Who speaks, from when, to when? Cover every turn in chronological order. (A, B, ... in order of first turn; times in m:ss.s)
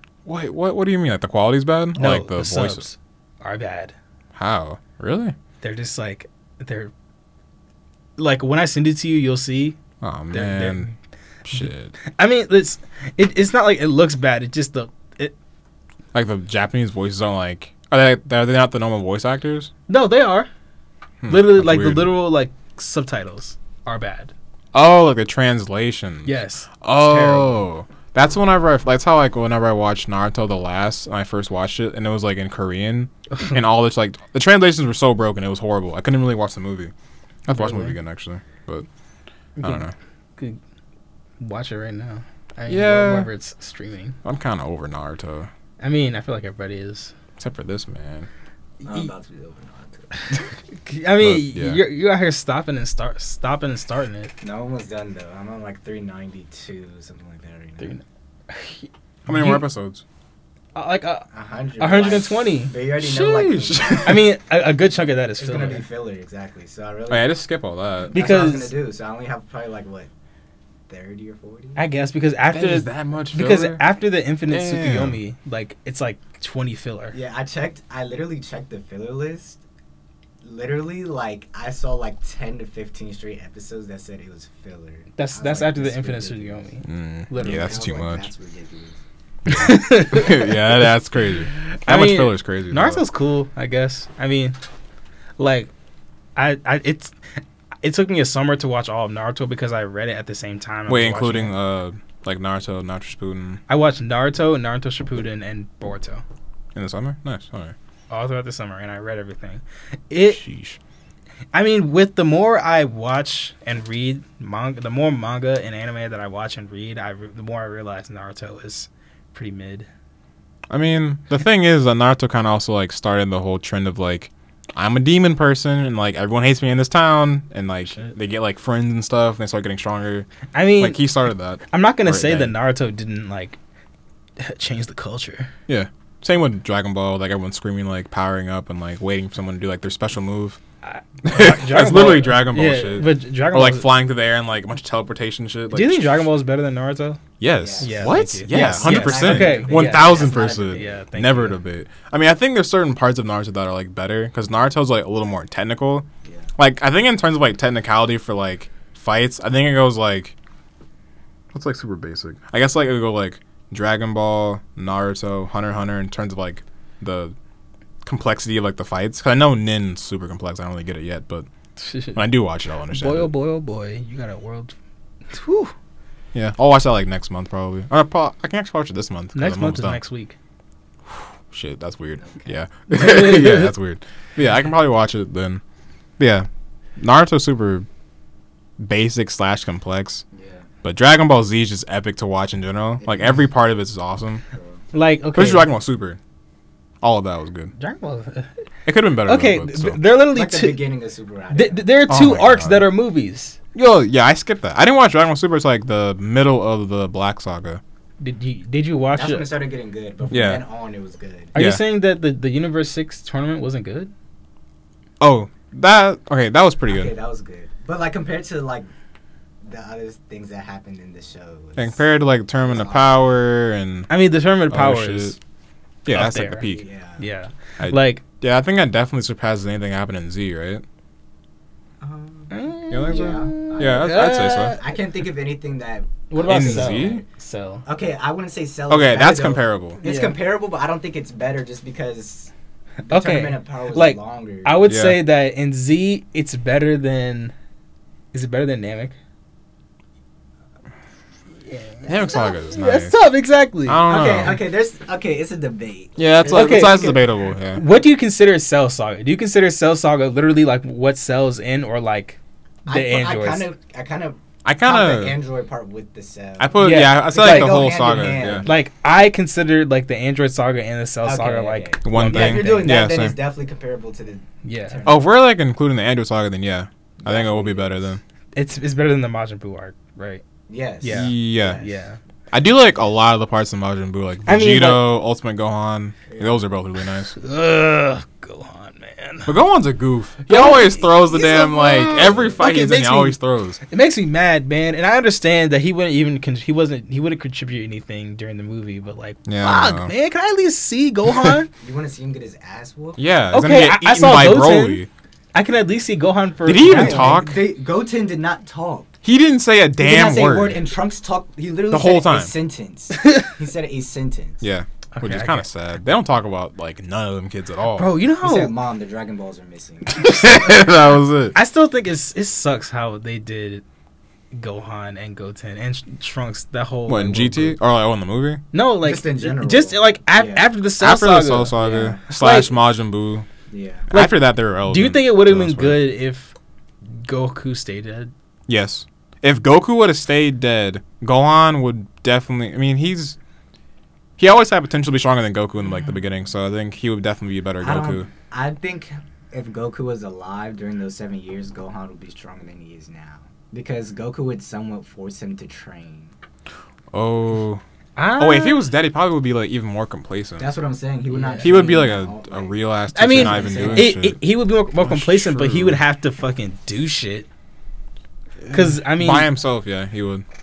0:00.2-0:02.8 A
0:02.0-0:03.9 B
0:04.4-0:05.4 A
0:05.6-0:06.9 B
0:08.2-0:09.8 B
0:10.0-0:10.9 A
0:10.3-0:10.9 B
0:11.4-0:11.9 A
0:12.0-0:15.3 B
0:16.1-0:19.7 A
0:19.9-0:20.5 B
0:21.2-0:22.1 A
0:21.3-0:24.3 B
0:24.7-0:36.9 A
0:26.2-0:27.5 B
0:37.5-0:38.9 A
0:37.5-0:38.0 B
0:39.6-0:40.6 B
0:39.6-0:39.9 A
0:41.4-0:44.2 B
0:42.7-0:43.3 A
0:44.2-0:45.5 A
0:45.8-0:47.1 B
0:47.4-0:48.3 A
0:48.8-0:50.4 C
0:50.2-0:54.3 B
0:51.2-0:51.8 A
0:54.4-0:57.9 C
0:57.8-0:59.7 B
0:59.3-1:00.0 A
1:00.8-1:01.3 B
1:01.3-1:04.2 C
1:01.8-1:02.7 B
1:03.0-1:04.3 A
1:04.0-1:05.8 B
1:05.4-1:07.4 C
1:07.1-1:08.2 A
1:08.1-1:10.1 C
1:08.1-1:08.7 B
1:10.9-1:11.8 C
1:11.8-1:17.2 B
1:12.5-1:13.8 A
1:14.5-1:15.2 A
1:17.1-1:19.6 C
1:20.4-1:26.7 C
1:25.2-1:27.8 B
1:26.8-1:28.3 A
1:27.4-1:29.0 C
1:29.5-1:30.9 B
1:29.5-1:33.0 A
1:31.5-1:34.6 B
1:35.4-1:35.7 B
1:36.4-1:41.5 B
1:40.9-1:43.6 A
1:43.7-1:46.2 B
1:46.8-1:47.8 A
1:48.1-1:50.4 B
1:50.3-1:50.8 A
1:51.5-1:59.9 B
2:00.7-2:12.5 A
2:10.5-2:11.1 B
2:11.7-2:13.6 B
2:14.4-2:15.5 B
2:15.7-2:20.6 A
2:20.8-2:23.9 B
2:21.2-2:26.1 A
2:25.7-2:27.2 B
2:27.4-2:36.1 A
2:27.6-2:31.0 C
2:27.8-2:31.6 B
2:36.6-2:40.4 A
2:41.5-2:47.4 A
2:48.0-2:51.5 A
2:51.8-2:52.2 B
2:52.2-2:53.3 A
2:52.9-2:54.8 B
2:55.3-2:55.7 B
2:56.3-3:00.0 A
2:59.3-3:00.4 B
3:01.1-3:05.6 A
3:02.2-3:02.5 C
3:02.9-3:03.7 B
3:06.2-3:06.5 A
3:07.0-3:07.9 A
3:08.8-3:10.2 A
3:10.3-3:10.7 C
3:10.8-3:14.4 A
3:14.5-3:14.8 C
3:14.9-3:15.7 B
3:15.3-3:16.2 A
3:17.0-3:17.7 A
3:17.8-3:18.5 B
3:18.9-3:20.0 A
3:19.2-3:20.8 B
3:20.3-3:22.0 C
3:21.5-3:23.6 B
3:22.1-3:22.9 A
3:23.7-3:27.8 A
3:28.2-3:29.5 B
3:29.2-3:31.5 C
3:30.3-3:30.6 A
3:31.5-3:34.1 B
3:31.6-3:31.8 A
3:35.2-3:37.1 A
3:36.9-3:38.9 C
3:39.6-3:42.1 C
3:41.8-3:44.1 A
3:42.6-3:43.1 C
3:44.1-3:45.4 B
3:44.7-3:45.4 A
3:46.1-3:46.9 A
3:46.1-3:48.2 B
3:46.7-3:47.3 C
3:47.8-3:50.8 A
3:52.0-3:57.2 C
3:52.5-3:54.8 B
3:52.9-3:54.8 A
3:56.3-3:57.8 B
3:56.4-3:57.2 A
3:57.9-4:02.5 C
3:58.9-4:00.0 A
4:00.0-4:00.4 B
4:03.1-4:04.9 C
4:03.1-4:07.5 B
4:04.9-4:05.2 A
4:08.3-4:09.2 B
4:11.7-4:14.0 B
4:12.1-4:13.2 A
4:13.9-4:14.6 A
4:14.1-4:17.2 C
4:16.2-4:17.8 A
4:16.5-4:17.2 B
4:17.7-4:23.7 B
4:22.9-4:28.8 C
4:24.6-4:25.4 A
4:26.6-4:28.7 A
4:26.8-4:27.8 B
4:28.6-4:33.0 B
4:31.2-4:35.3 C
4:32.0-4:33.4 A
4:34.6-4:35.0 B
4:35.0-4:38.2 A
4:37.2-4:38.2 C
4:38.6-4:40.4 B
4:40.7-4:42.0 C
4:41.0-4:42.2 B
4:41.0-4:41.8 A
4:42.5-4:47.3 A
4:44.5-4:45.1 B
4:46.3-4:46.6 C
4:47.3-4:49.5 B
4:49.5-4:53.8 A
4:50.4-4:53.4 B
4:52.2-4:52.5 C
4:53.9-5:01.7 B
4:59.5-5:00.1 A
5:01.8-5:03.2 C
5:03.2-5:05.1 A
5:03.5-5:05.0 B
5:05.5-5:07.4 B
5:06.6-5:07.6 A
5:06.8-5:09.1 C
5:09.2-5:10.8 A
5:10.0-5:14.6 C
5:11.9-5:12.5 A
5:13.1-5:13.5 B
5:14.6-5:18.1 A
5:15.1-5:15.6 B
5:18.0-5:18.7 B
5:18.4-5:20.9 C
5:20.1-5:21.6 A
5:21.5-5:23.8 B
5:24.5-5:27.8 B
5:27.1-5:28.6 A
5:28.7-5:32.7 B
5:29.0-5:30.7 C
5:31.0-5:33.5 A
5:31.8-5:32.3 C
5:33.7-5:34.1 C
5:34.1-5:36.0 A
5:34.1-5:36.5 B
5:37.2-5:38.3 B
5:38.7-5:43.4 A
5:44.4-5:48.3 A
5:47.8-5:56.3 C
5:57.1-5:57.8 A
5:58.2-5:58.9 B
5:58.4-6:00.7 A
6:00.6-6:04.2 C
6:01.3-6:01.7 B
6:01.6-6:04.4 A
6:03.1-6:07.5 B
6:05.0-6:06.0 A
6:08.6-6:10.4 A
6:08.7-6:09.5 B